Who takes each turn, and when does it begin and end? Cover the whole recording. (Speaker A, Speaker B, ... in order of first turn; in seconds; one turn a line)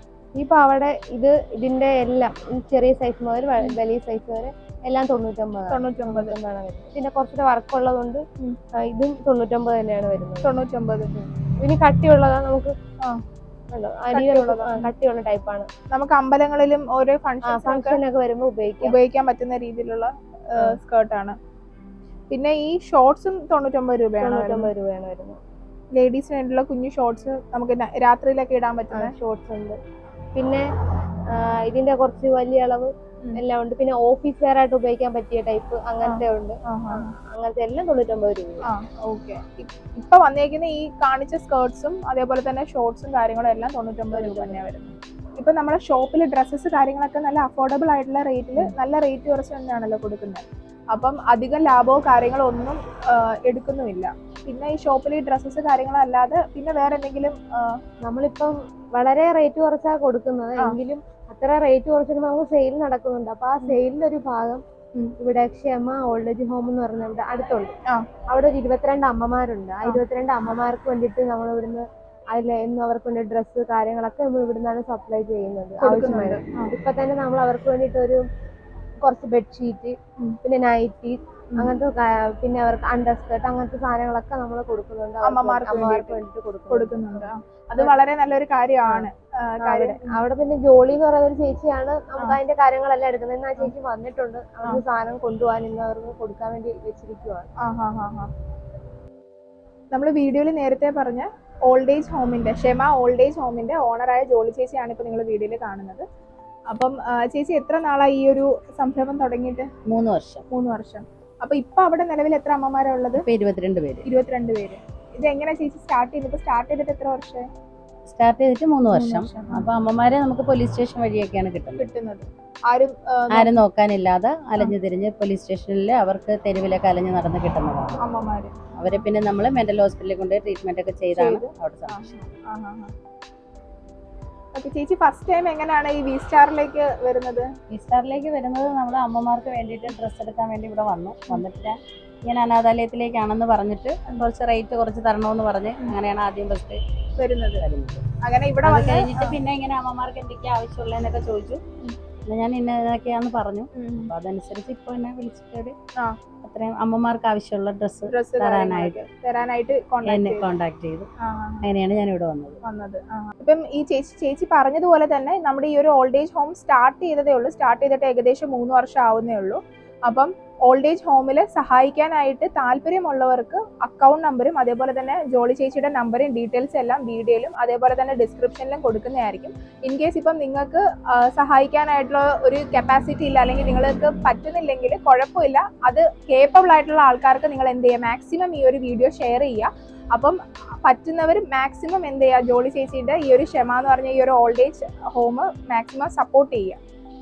Speaker A: 0.4-8.2
Speaker B: 5.7-6.3
Speaker A: 8.8-10.6
Speaker B: 10.4-11.1
Speaker A: 11.6-12.7
Speaker A: 13.7-15.7
Speaker B: 14.1-14.9
Speaker B: 15.9-18.0
Speaker A: 17.5-18.9
Speaker B: 18.8-21.4
Speaker B: 22.3-24.7
Speaker A: 24.2-25.4
Speaker B: 25.9-29.1
Speaker A: 28.9-29.8
Speaker A: 30.3-30.6
Speaker A: 31.3-38.7
Speaker B: 36.0-37.1
Speaker B: 38.7-57.8
Speaker A: 44.1-44.6
Speaker A: 58.0-64.6
Speaker A: 65.2-67.7
Speaker A: 68.3-78.2
Speaker B: 75.8-76.7
Speaker A: 79.0-87.9
Speaker B: 85.2-90.2
Speaker A: 89.6-97.5
Speaker B: 97.6-98.3
Speaker B: 99.9-106.0
Speaker B: 106.7-109.7
Speaker C: 109.8-110.4
Speaker B: 110.5-113.2
Speaker C: 113.1-114.1
Speaker B: 114.0-117.5
Speaker C: 118.1-121.9
Speaker B: 118.9-119.7
Speaker B: 121.8-123.6
Speaker C: 123.3-128.0
Speaker B: 128.0-129.0
Speaker C: 128.8-132.2
Speaker B: 131.1-132.9
Speaker B: 134.5-137.5
Speaker C: 137.7-146.8
Speaker B: 147.2-147.6
Speaker C: 147.6-148.0
Speaker B: 148.2-149.4
Speaker C: 148.6-151.6
Speaker C: 152.2-155.7
Speaker B: 153.7-154.1
Speaker C: 156.4-159.0
Speaker B: 158.1-160.5
Speaker C: 160.0-161.1
Speaker B: 161.2-161.7
Speaker C: 161.6-162.6
Speaker B: 162.6-196.8